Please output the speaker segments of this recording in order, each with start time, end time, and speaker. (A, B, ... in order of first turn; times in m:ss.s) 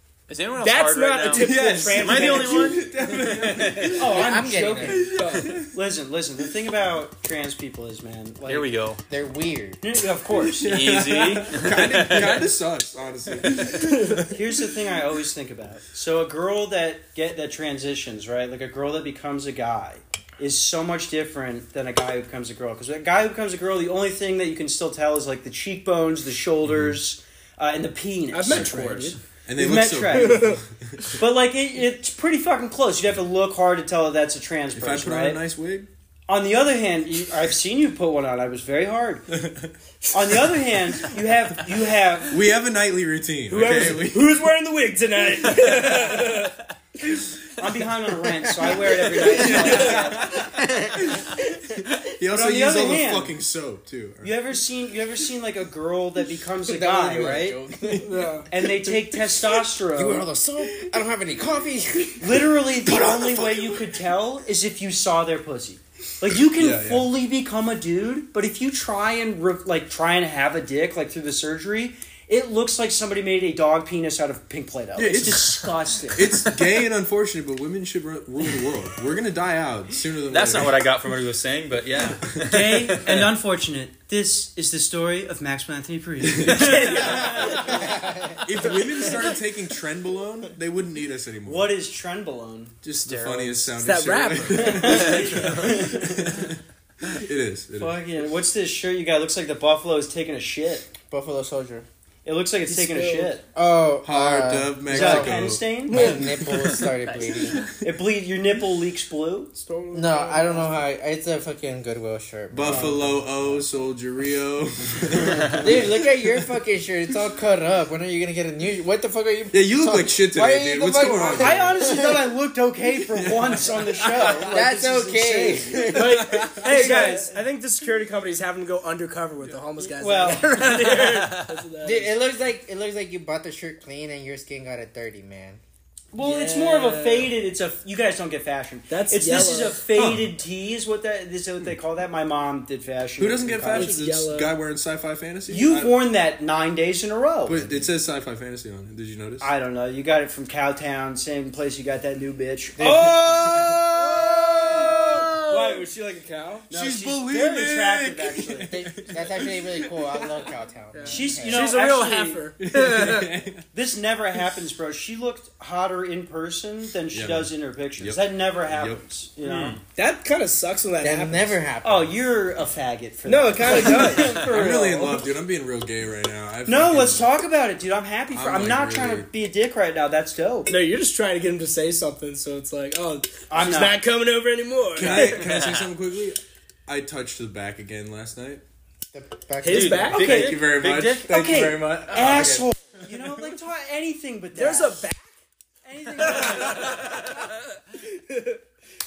0:00.3-0:04.0 A
0:00.6-0:02.9 B
0:01.3-0:05.7 C
0:04.0-0:08.7 D
0:04.1-0:05.1 E
0:05.2-0:05.6 B
0:08.5-0:09.0 A
0:09.1-0:09.8 E
0:09.8-0:10.8 D
0:10.4-0:14.4 C
0:10.6-0:12.5 A
0:13.8-0:14.2 B
0:14.3-0:30.6 D
0:26.7-0:27.0 C
0:28.3-0:29.2 B
0:28.5-0:28.8 C
0:29.5-0:31.2 C
0:30.1-0:30.6 B
0:31.1-0:35.4 D
0:34.7-0:35.9 C
0:36.3-0:39.3 D
0:39.4-0:39.7 C
0:40.1-0:42.4 D
0:42.3-0:44.5 C
0:43.5-0:46.6 B
0:45.4-0:45.7 C
0:47.6-0:50.2 D
0:49.2-0:54.4 C
0:49.5-0:51.4 E
0:52.3-0:53.3 D
0:54.2-0:57.6 D
0:56.8-0:58.6 C
0:57.7-0:58.2 E
0:58.0-0:58.5 B
0:58.5-1:00.3 D
0:59.2-0:59.5 C
0:59.9-1:02.5 E
1:02.2-1:16.3 D
1:02.8-1:04.0 C
1:06.5-1:07.1 C
1:15.0-1:20.9 C
1:16.5-1:16.8 A
1:20.3-1:23.3 A
1:22.4-1:22.7 C
1:22.4-1:27.8 D
1:26.2-1:27.7 C
1:26.5-1:27.8 B
1:27.6-1:28.5 E
1:28.4-1:31.7 C
1:31.4-1:32.8 D
1:32.8-1:38.0 C
1:33.0-1:33.7 A
1:33.8-1:35.2 B
1:34.5-1:36.4 D
1:34.9-1:35.7 A
1:37.8-1:40.9 D
1:41.1-1:41.9 E
1:42.2-1:43.4 D
1:42.7-1:43.4 B
1:43.5-1:47.6 E
1:44.0-1:46.9 C
1:44.9-1:46.1 D
1:45.9-1:46.9 B
1:47.0-1:47.6 A
1:47.8-1:49.5 D
1:49.6-1:50.8 B
1:49.9-1:53.6 E
1:52.5-1:55.9 C
1:52.6-1:53.1 D
1:55.6-2:02.3 E
1:59.5-2:02.0 C
2:01.3-2:06.0 D
2:03.1-2:04.5 C
2:04.2-2:07.2 E
2:05.7-2:07.1 C
2:05.9-2:12.2 B
2:06.6-2:07.3 D
2:09.8-2:10.7 D
2:11.0-2:11.4 A
2:11.8-2:15.6 E
2:16.1-2:24.0 D
2:16.2-2:17.3 B
2:18.9-2:19.9 B
2:19.9-2:20.3 C
2:23.2-2:26.0 C
2:23.7-2:24.6 B
2:25.5-2:27.8 D
2:27.5-2:29.5 C
2:29.4-2:36.0 D
2:32.8-2:33.3 E
2:32.8-2:33.8 C
2:33.0-2:36.7 B
2:34.7-2:35.2 C
2:36.7-2:38.8 D
2:36.7-2:40.5 C
2:38.7-2:41.7 E
2:40.9-2:43.4 B
2:41.1-2:42.5 D
2:42.6-2:43.6 C
2:43.7-2:49.8 D
2:47.1-2:49.0 C
2:49.4-2:49.8 A
2:50.0-2:51.6 B
2:51.0-2:52.2 E
2:51.8-2:55.3 D
2:53.2-2:54.5 B
2:54.0-2:57.3 C
2:56.7-3:00.7 D
2:58.3-2:59.3 C
3:00.7-3:05.5 B
3:03.5-3:04.0 D
3:04.9-3:08.6 C
3:05.0-3:05.9 A
3:09.1-3:10.1 E
3:09.6-3:10.6 B
3:09.7-3:11.3 A
3:10.1-3:13.5 C
3:10.1-3:15.1 D
3:14.6-3:15.3 B
3:15.8-3:17.0 D
3:16.2-3:18.6 B
3:16.3-3:17.2 C